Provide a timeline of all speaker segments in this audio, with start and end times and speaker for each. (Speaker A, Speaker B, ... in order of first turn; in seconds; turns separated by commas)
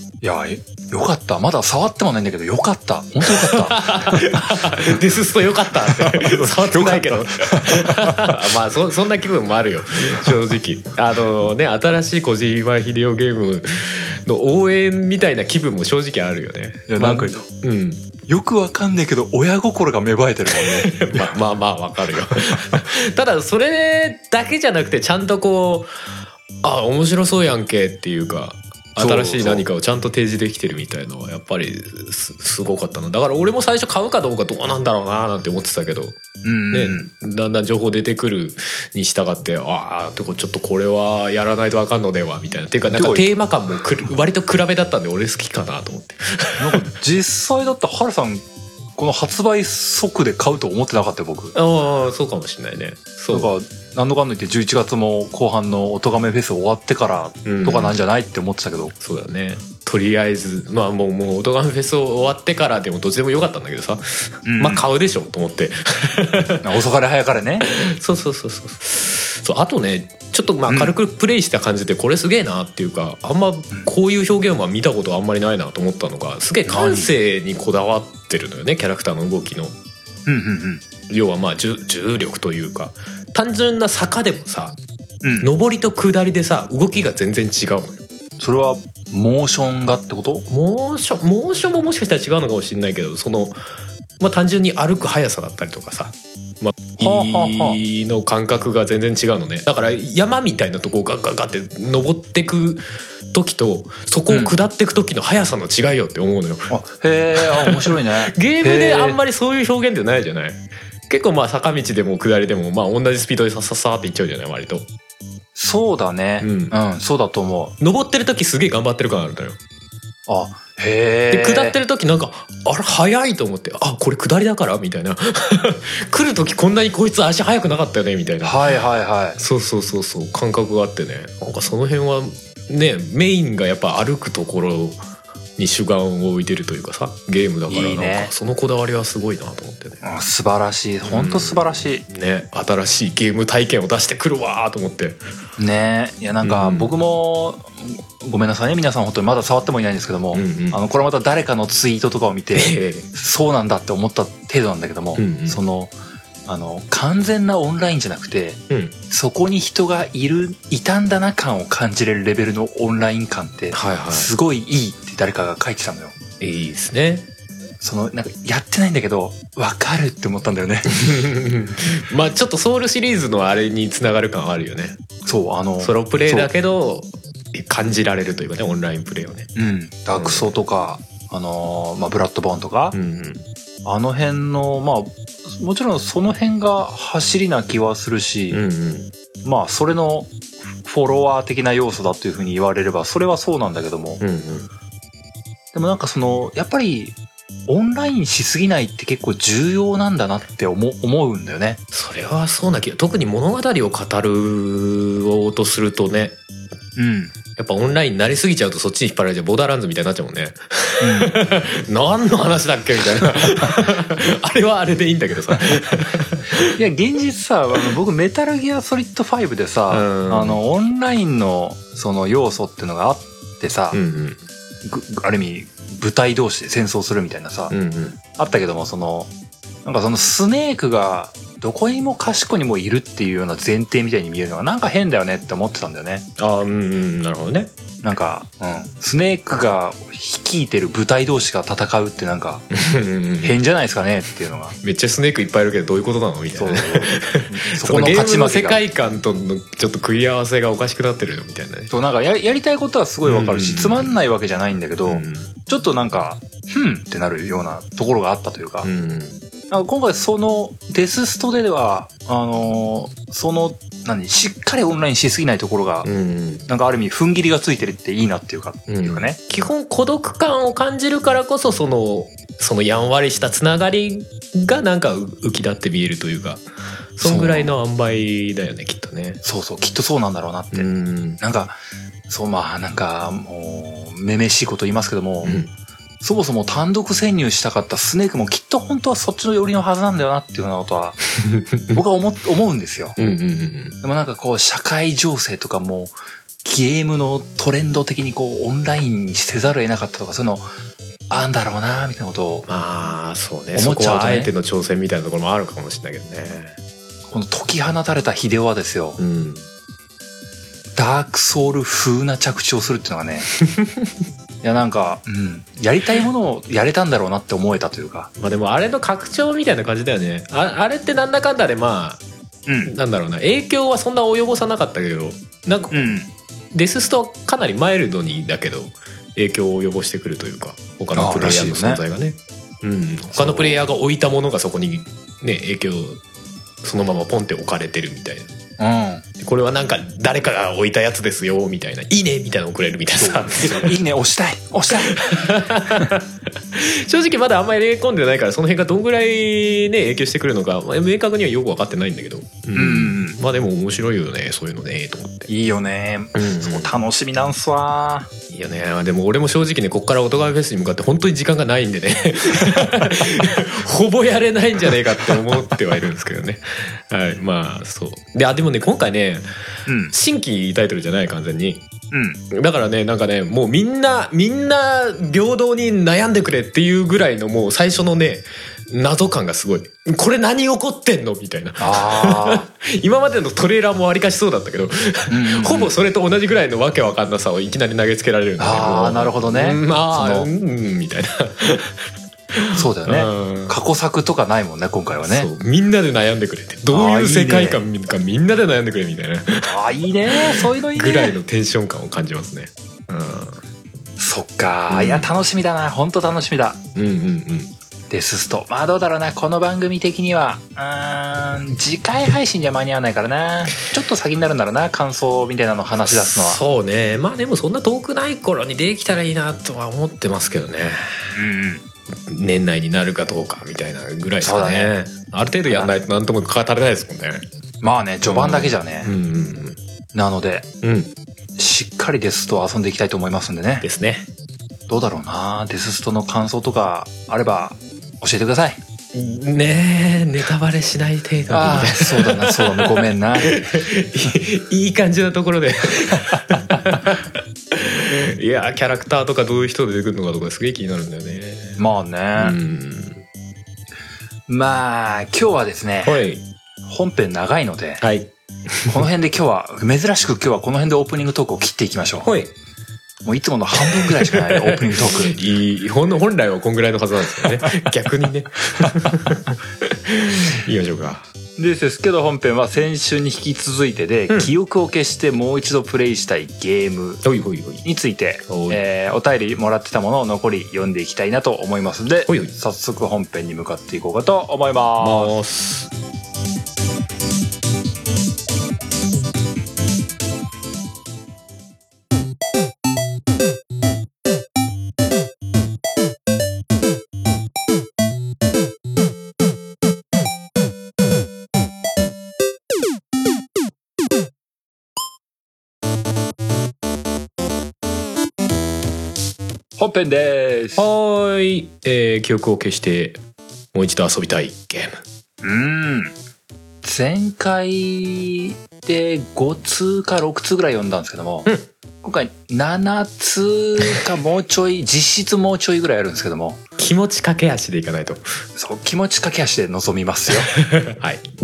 Speaker A: 0.2-4.5, Speaker B: 3.3-18.1, Speaker A: 5.9-8.4, Speaker A: 16.9-17.5, Speaker A: 18.3-21.3, Speaker B: 20.5-25.9, Speaker B: 26.6-36.2, Speaker A: 29.0-29.7, Speaker A: 36.4-37.1, Speaker B: 36.7-46.8, Speaker A: 42.9-43.3, Speaker A: 46.6-48.5, Speaker A: 49.0-51.6, Speaker B: 51.5-53.5, Speaker A: 53.3-58.9, Speaker B: 57.5-58.0, Speaker B: 59.0-66.6, Speaker A: 64.5-64.9, Speaker A: 66.6-67.7, Speaker B: 67.6-79.8, Speaker A: 70.7-70.9, Speaker A: 76.7-77.1, Speaker A: 80.3-80.8, Speaker B: 81.1-84.8, Speaker A: 85.2-85.5, Speaker B: 85.4-88.0, Speaker A: 88.4-90.5, Speaker B: 90.5-93.6, Speaker B: 94.2-106.7, Speaker A: 97.0-97.8, Speaker A: 104.3-104.6, Speaker A: 106.7-109.2, Speaker B: 107.4-114.9, Speaker A: 115.5-117.8, Speaker B: 116.4-116.8, Speaker B: 117.8-119.6, Speaker A: 120.3-121.8, Speaker B: 121.3-128.6, Speaker A: 128.4-129.4, Speaker B: 129.4-135.0, Speaker B: 135.6-140.0, Speaker A: 137.7-138.3, Speaker A: 140.0-142.0, Speaker B: 141.0-145.2, Speaker A: 145.6-155.9, Speaker B: 146.4-146.9, Speaker B: 150.3-150.8, Speaker B: 152.6-153.1, Speaker B: 155.2-155.6, Speaker A: 156.5-166.2, Speaker B: 163.7-164.3, Speaker B: 166.4-167.3, Speaker A: 167.8-171.3, Speaker B: 170.9-175.0, Speaker A: 175.3-176.5, Speaker B: 175.8-179.5, Speaker A: 179.6-183.0, Speaker B: 180.1-180.6, Speaker B: 182.9-183.5, Speaker A: 183.8-188.6, Speaker B: 188.5-189.1, Speaker A: 189.4-194.2, Speaker B: 194.2-194.7, Speaker A: 195.7-197.2, Speaker A: 197.7-201.8, Speaker B: 201.9-206.4, Speaker A: 207.0-207.3, Speaker B: 207.6-216.7, Speaker A: 211.0-211.3, Speaker A: 216.6-224.0, Speaker B: 219.9-220.6, Speaker B: 223.9-224.4, Speaker A: 224.8-227.8, Speaker B: 227.7-228.2, Speaker A: 228.3-229.3, Speaker A: 229.8-236.3, Speaker B: 236.4-237.7, Speaker A: 238.0-242.7, Speaker B: 242.7-243.6, Speaker A: 243.4-244.8, Speaker B: 244.8-251.9, Speaker A: 246.6-248.8, Speaker A: 251.9-258.9, Speaker B: 253.2-254.1, Speaker B: 255.1-255.5, Speaker B: 258.8-259.4, Speaker A: 259.7-266.1, Speaker B: 266.1-266.6, Speaker A: 266.7-269.4, Speaker B: 268.9-276.6, Speaker B: 277.1-279.4, Speaker A: 277.2-277.7, Speaker A: 279.4-280.9, Speaker B: 280.7-281.4, Speaker A: 281.4-281.8, Speaker A: 282.3-285.6, Speaker B: 285.4-285.7, Speaker A: 286.2-291.2, Speaker B: 291.4-292.0, Speaker A: 291.9-293.2, Speaker B: 293.2-294.0, Speaker A: 294.0-300.7, Speaker A: 301.3-302.7, Speaker B: 302.7-306.8, Speaker A: 303.7-304.5, Speaker A: 307.3-309.2, Speaker B: 309.2-309.6, Speaker A: 311.0-313.5, Speaker B: 313.6-314.1, Speaker A: 314.6-318.3, Speaker B: 318.4-322.2, Speaker A: 322.7-322.9, Speaker B: 322.9-326.1, Speaker A: 325.9-326.3, Speaker B: 326.7-336.2, Speaker A: 331.1-332.0, Speaker A: 333.3-333.8, Speaker B: 336.8-338.5, Speaker A: 338.8-339.2, Speaker B: 339.4-343.9, Speaker A: 343.2-346.1, Speaker B: 344.9-355.5, Speaker A: 352.7-353.4, Speaker A: 355.5-358.3, Speaker B: 356.4-356.9, Speaker B: 358.5-369.5, Speaker A: 369.9-370.1, Speaker B: 370.1-371.8, Speaker A: 372.1-372.4, Speaker B: 372.5-393.8, Speaker A: 381.8-382.7, Speaker A: 385.3-386.0, Speaker A: 388.6-390.5, Speaker A: 392.7-395.5, Speaker B: 395.3-403.6, Speaker A: 396.9-397.9, Speaker A: 399.7-401.4, Speaker A: 404.2-406.8, Speaker B: 404.9-405.3, Speaker B: 406.9-407.7, Speaker A: 408.1-416.6, Speaker B: 415.9-421.2, Speaker A: 421.3-421.9, Speaker B: 422.3-427.4, Speaker A: 424.4-424.9, Speaker A: 425.7-425.9, Speaker A: 427.8-429.1, Speaker B: 428.2-429.8, Speaker A: 430.1-430.7, Speaker B: 430.8-431.1, Speaker A: 431.6-433.9, Speaker B: 433.8-434.3, Speaker A: 434.9-438.8, Speaker B: 439.1-451.8, Speaker A: 441.5-443.6, Speaker A: 446.3-447.0, Speaker A: 451.8-452.6, Speaker B: 452.4-453.2, Speaker A: 454.5-456.2, Speaker B: 456.1-456.4, Speaker A: 456.9-458.0, Speaker B: 458.0-459.0, Speaker A: 458.9-462.3, Speaker B: 462.2-462.5, Speaker A: 463.2-465.4, Speaker B: 463.9-471.3, Speaker A: 471.6-477.2, Speaker B: 477.2-477.9, Speaker A: 477.8-485.4, Speaker B: 478.5-478.8, Speaker B: 482.3-482.5, Speaker B: 485.0-485.9, Speaker A: 509.8-510.8, Speaker B: 510.8-513.2, Speaker B: 513.7-515.0, Speaker A: 515.4-516.1, Speaker A: 516.8-526.6, Speaker B: 526.8-528.3, Speaker A: 528.6-530.6, Speaker B: 530.5-531.3